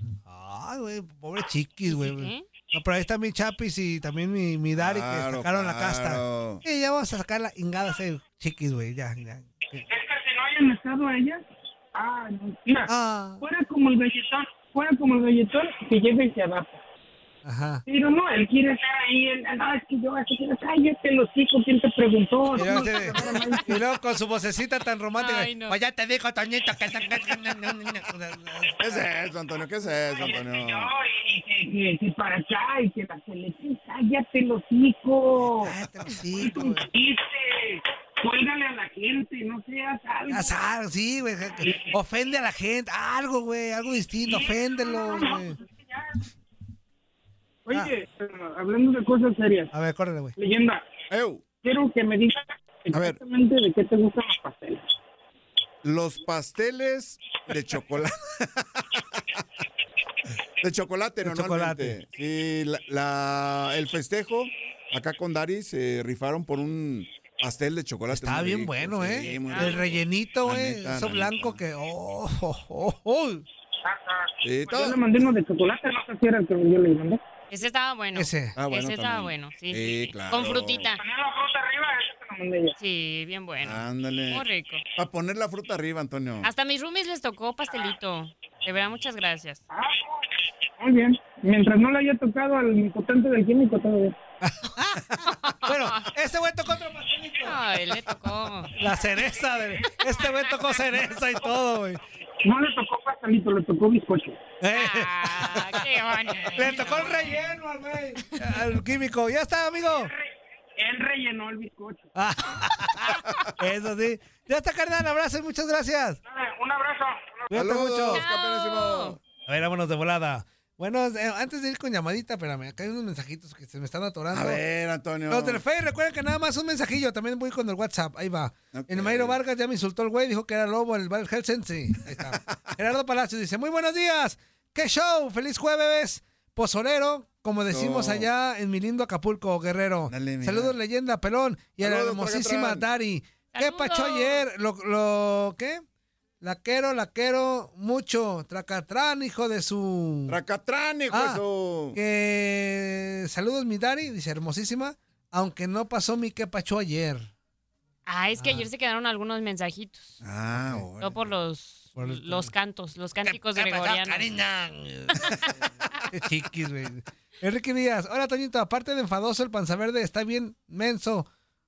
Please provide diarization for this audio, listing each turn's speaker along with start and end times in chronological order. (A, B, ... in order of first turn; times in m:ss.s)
0:00.2-0:09.8 A
0:01.8-0:02.5 B
0:04.7-0:06.6 C
0:09.9-0:16.8 D
0:12.9-0:13.4 A
0:17.4-0:17.8 A
0:17.9-0:23.8 D
0:22.6-0:28.8 A
0:25.2-0:25.8 B
0:28.8-0:30.9 C
0:30.1-0:40.6 D
0:35.4-0:36.9 A
0:40.3-0:45.6 A
0:41.6-0:41.9 D
0:44.2-0:46.2 D
0:47.6-0:49.7 D
0:49.7-0:50.4 A
0:50.4-0:50.8 D
0:51.1-0:51.4 C
0:51.6-0:54.9 D
0:52.9-0:53.2 C
0:55.8-0:59.4 C
1:00.6-1:11.6 C
1:01.2-1:02.0 A
1:08.1-1:13.4 A
1:09.2-1:09.9 B
1:13.8-1:17.2 D
1:14.4-1:15.0 C
1:17.5-1:21.0 B
1:18.1-1:18.6 A
1:18.6-1:20.9 C
1:21.0-1:22.8 D
1:22.8-1:24.8 B
1:23.6-1:26.5 C
1:26.4-1:29.6 B
1:29.7-1:30.2 D
1:30.8-1:34.2 D
1:34.4-1:37.6 A
1:35.2-1:36.1 B
1:37.4-1:38.7 B
1:38.8-1:42.0 A
1:42.4-1:44.5 D
1:44.6-1:45.8 A
1:44.7-1:47.5 B
1:46.5-1:50.1 A
1:49.9-1:50.2 D
1:50.8-1:52.1 D
1:52.1-1:56.2 A
1:56.2-1:57.5 D
1:57.5-1:58.2 A
1:57.5-1:59.2 C
1:58.1-1:59.2 B
1:59.5-2:04.6 A
2:04.3-2:05.6 C
2:05.3-2:25.8 A
2:08.7-2:09.4 C
2:12.1-2:12.7 C
2:17.7-2:18.3 C
2:20.1-2:20.8 C
2:21.8-2:22.9 C
2:23.5-2:24.4 B
2:26.4-2:30.4 A
2:30.3-2:32.0 C
2:31.1-2:31.4 A
2:31.9-2:37.3 A
2:38.0-2:40.2 B
2:38.4-2:38.6 A
2:40.2-2:41.3 C
2:40.5-2:40.8 A
2:41.0-2:44.3 B
2:42.0-2:42.5 A
2:43.2-2:45.5 A
2:46.1-2:51.3 A